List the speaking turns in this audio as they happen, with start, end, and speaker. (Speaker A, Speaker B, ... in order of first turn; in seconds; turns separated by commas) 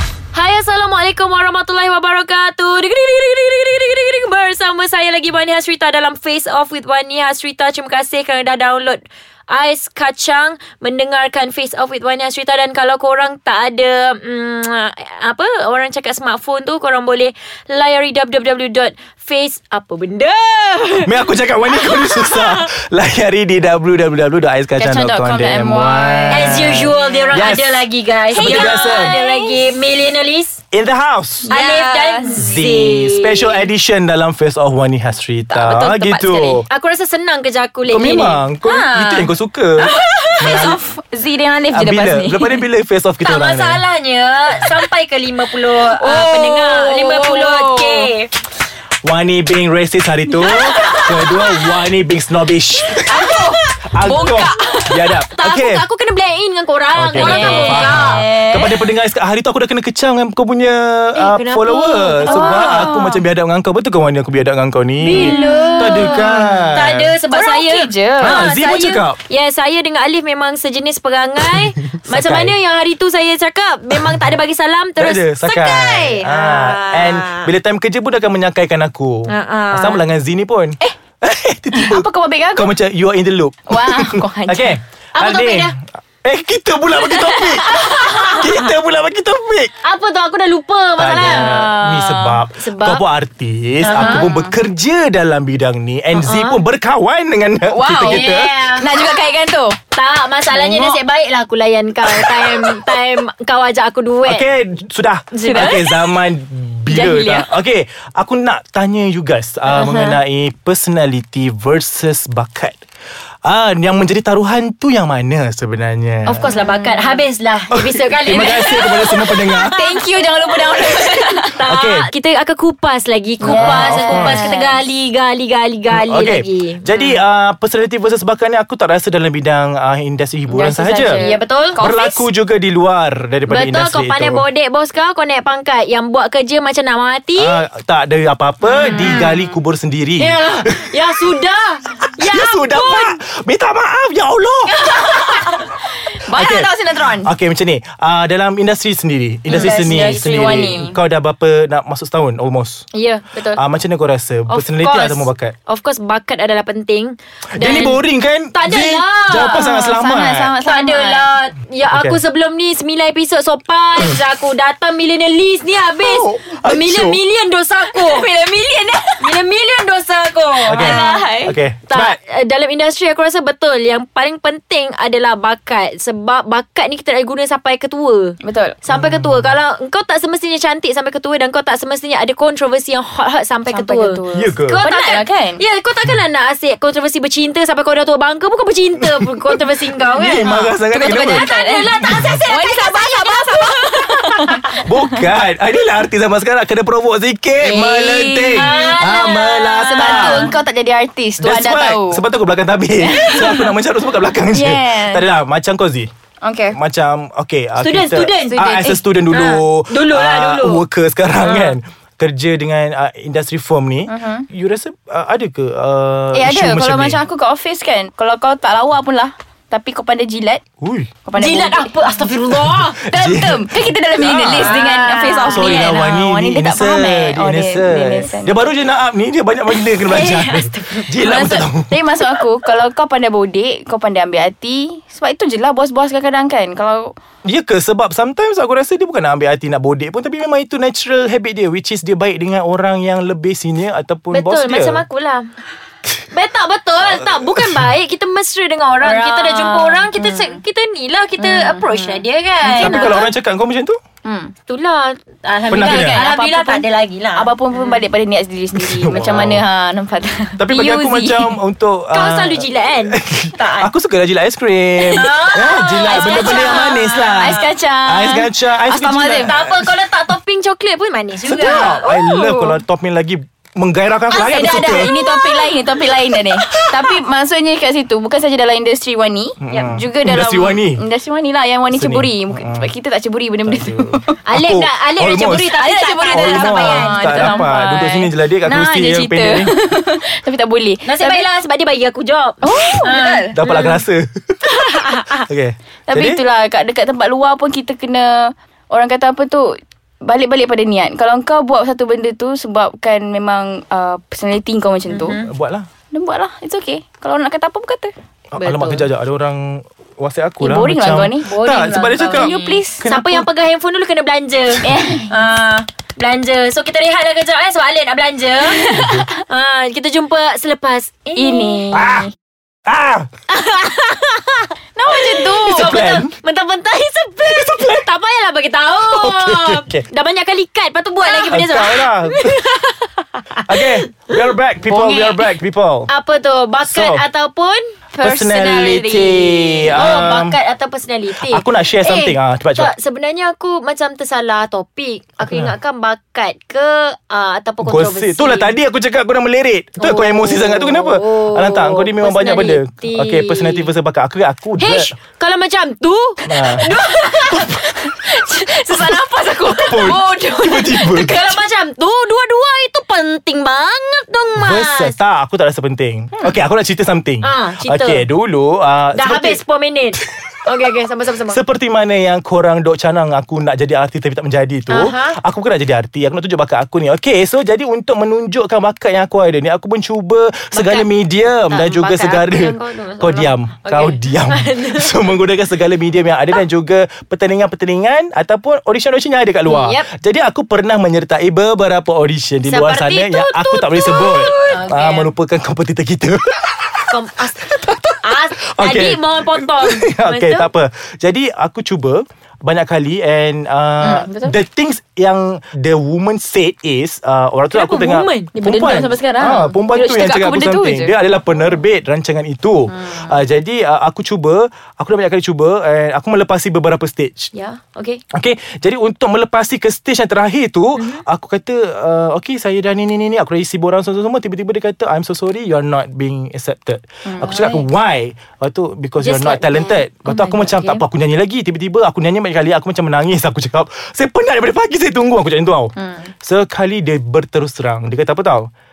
Speaker A: 0.3-22.7, Speaker B: 21.0-27.9, Speaker C: 24.8-26.7, Speaker A: 26.3-30.6, Speaker C: 28.3-29.7, Speaker B: 28.4-29.2, Speaker B: 30.7-31.5, Speaker A: 31.5-33.6, Speaker C: 31.5-32.6, Speaker B: 32.4-36.6, Speaker A: 35.5-38.4, Speaker B: 37.9-40.8, Speaker C: 38.6-39.3, Speaker A: 39.8-40.3, Speaker C: 39.9-42.7, Speaker B: 41.7-43.8, Speaker A: 43.2-48.3, Speaker C: 45.7-48.1, Speaker B: 49.0-55.8, Speaker C: 50.4-51.1, Speaker A: 50.6-51.4, Speaker C: 53.0-55.2, Speaker A: 54.1-54.5, Speaker A: 55.3-58.2, Speaker B: 56.9-67.2, Speaker C: 57.2-58.9, Speaker A: 61.2-62.9, Speaker C: 62.2-63.2, Speaker A: 65.0-77.5, Speaker C: 65.1-66.8, Speaker C: 67.3-68.5, Speaker B: 68.2-69.2, Speaker B: 71.5-72.6, Speaker B: 75.0-89.8, Speaker A: 79.3-80.1, Speaker C: 81.7-82.7, Speaker C: 83.7-84.8, Speaker A: 85.2-85.8, Speaker A: 87.1-88.7, Speaker A: 89.8-91.7, Speaker B: 91.0-98.6, Speaker C: 91.2-92.4, Speaker A: 92.5-93.0, Speaker A: 93.8-94.3, Speaker C: 93.9-94.6, Speaker A: 96.2-96.6, Speaker C: 97.7-99.8, Speaker A: 97.9-98.9, Speaker A: 99.9-104.5, Speaker C: 100.5-101.0, Speaker B: 102.2-102.8, Speaker B: 104.2-112.8, Speaker A: 105.3-105.9, Speaker C: 105.4-106.0, Speaker C: 106.9-107.5, Speaker A: 109.7-110.2, Speaker B: 113.5-116.5, Speaker A: 116.3-118.8, Speaker C: 116.4-117.2, Speaker B: 117.7-119.8, Speaker C: 118.4-121.6, Speaker A: 121.4-127.0, Speaker B: 121.7-122.1, Speaker B: 123.4-124.5, Speaker C: 123.4-124.8, Speaker B: 125.9-131.2, Speaker C: 130.5-132.2, Speaker A: 131.1-131.8, Speaker B: 131.8-134.4, Speaker A: 133.5-137.6, Speaker B: 137.4-140.9, Speaker C: 138.7-139.6, Speaker A: 138.7-139.4, Speaker A: 140.2-143.2, Speaker B: 142.2-144.9, Speaker C: 144.7-147.3, Speaker B: 146.3-152.9, Speaker A: 149.5-150.9, Speaker C: 149.5-151.0, Speaker A: 152.9-153.2, Speaker C: 153.3-153.6, Speaker B: 153.6-155.6, Speaker A: 154.5-158.0, Speaker B: 157.6-160.6, Speaker A: 158.5-159.7, Speaker C: 159.4-161.3, Speaker A: 160.6-168.3, Speaker B: 161.9-162.2, Speaker B: 166.0-167.2, Speaker C: 167.8-169.4, Speaker A: 169.2-194.7, Speaker B: 170.6-172.2, Speaker C: 170.7-171.6, Speaker C: 178.4-178.8, Speaker B: 178.9-179.5, Speaker C: 183.7-185.6, Speaker B: 184.3-184.8, Speaker B: 189.0-189.5, Speaker B: 190.1-191.5, Speaker C: 190.4-194.8, Speaker B: 192.1-192.4, Speaker B: 194.8-200.5, Speaker C: 197.6-199.0, Speaker A: 198.5-200.5, Speaker C: 199.8-202.2, Speaker B: 201.4-206.1, Speaker C: 203.0-203.7, Speaker C: 204.4-205.3, Speaker C: 206.4-206.8, Speaker B: 206.7-217.2, Speaker A: 207.8-208.6, Speaker C: 208.5-209.1, Speaker A: 209.3-210.8, Speaker A: 211.4-211.8, Speaker C: 214.1-214.5, Speaker C: 216.3-220.6, Speaker B: 220.8-221.1, Speaker C: 221.2-221.9, Speaker A: 221.4-223.0, Speaker B: 222.5-224.8, Speaker C: 223.0-228.7, Speaker A: 224.5-226.0, Speaker B: 225.4-232.0, Speaker A: 229.7-231.2, Speaker C: 231.2-237.1, Speaker B: 237.4-245.1, Speaker A: 244.3-245.4, Speaker A: 246.3-253.3, Speaker B: 247.2-247.9, Speaker C: 249.0-250.6, Speaker C: 251.4-253.3, Speaker B: 252.8-254.0, Speaker C: 254.2-254.5, Speaker A: 254.7-258.0, Speaker B: 255.7-256.2, Speaker C: 255.9-261.6, Speaker A: 259.0-259.3, Speaker B: 259.0-259.6, Speaker B: 260.6-269.9, Speaker A: 262.1-263.9, Speaker A: 265.1-267.7, Speaker C: 266.1-269.6, Speaker A: 269.4-272.2, Speaker B: 271.4-275.3, Speaker C: 271.6-272.8, Speaker C: 274.3-284.4, Speaker A: 274.3-275.6, Speaker B: 276.7-277.1, Speaker B: 279.6-281.0, Speaker A: 279.7-280.0, Speaker B: 281.9-282.9, Speaker B: 283.6-285.7, Speaker A: 284.5-287.7, Speaker C: 285.7-291.5, Speaker B: 286.3-289.7, Speaker A: 291.1-294.0, Speaker C: 292.6-293.6, Speaker B: 293.5-294.4, Speaker A: 294.7-295.4, Speaker B: 295.3-296.4, Speaker C: 296.1-305.4, Speaker A: 305.1-305.5, Speaker B: 305.4-305.9, Speaker C: 306.1-308.1, Speaker B: 308.5-313.5, Speaker A: 308.6-309.1, Speaker C: 310.6-311.5, Speaker A: 311.4-321.9, Speaker C: 312.3-313.0, Speaker C: 314.8-315.3, Speaker C: 318.7-319.2, Speaker B: 318.9-319.3, Speaker C: 321.4-322.3, Speaker B: 321.9-322.3, Speaker B: 322.9-323.3, Speaker A: 323.5-335.5, Speaker C: 325.0-326.0, Speaker B: 325.6-326.3, Speaker B: 327.4-328.1, Speaker B: 329.1-330.0, Speaker B: 331.5-332.6, Speaker B: 333.7-336.1, Speaker A: 336.1-338.0, Speaker B: 336.9-337.2, Speaker C: 338.1-340.1, Speaker B: 338.2-340.6, Speaker A: 338.7-339.0, Speaker A: 339.9-348.7, Speaker B: 341.5-342.9, Speaker B: 345.4-345.7, Speaker B: 347.8-355.1, Speaker A: 350.0-353.9, Speaker A: 354.8-365.1, Speaker B: 356.5-356.9, Speaker C: 356.9-361.1, Speaker B: 359.7-361.6, Speaker B: 364.6-369.6, Speaker A: 367.4-368.3, Speaker A: 369.1-371.6, Speaker B: 371.5-397.1, Speaker A: 374.9-375.4, Speaker A: 380.7-385.3, Speaker A: 389.7-390.1, Speaker A: 392.7-395.3, Speaker A: 397.1-400.7, Speaker B: 397.8-417.5, Speaker C: 404.0-404.6, Speaker A: 407.7-408.5, Speaker C: 408.6-411.1, Speaker C: 412.9-413.4, Speaker A: 417.5-418.2, Speaker B: 418.3-438.7, Speaker A: 421.0-421.2, Speaker A: 427.4-427.9, Speaker A: 429.2-431.0, Speaker C: 436.0-436.3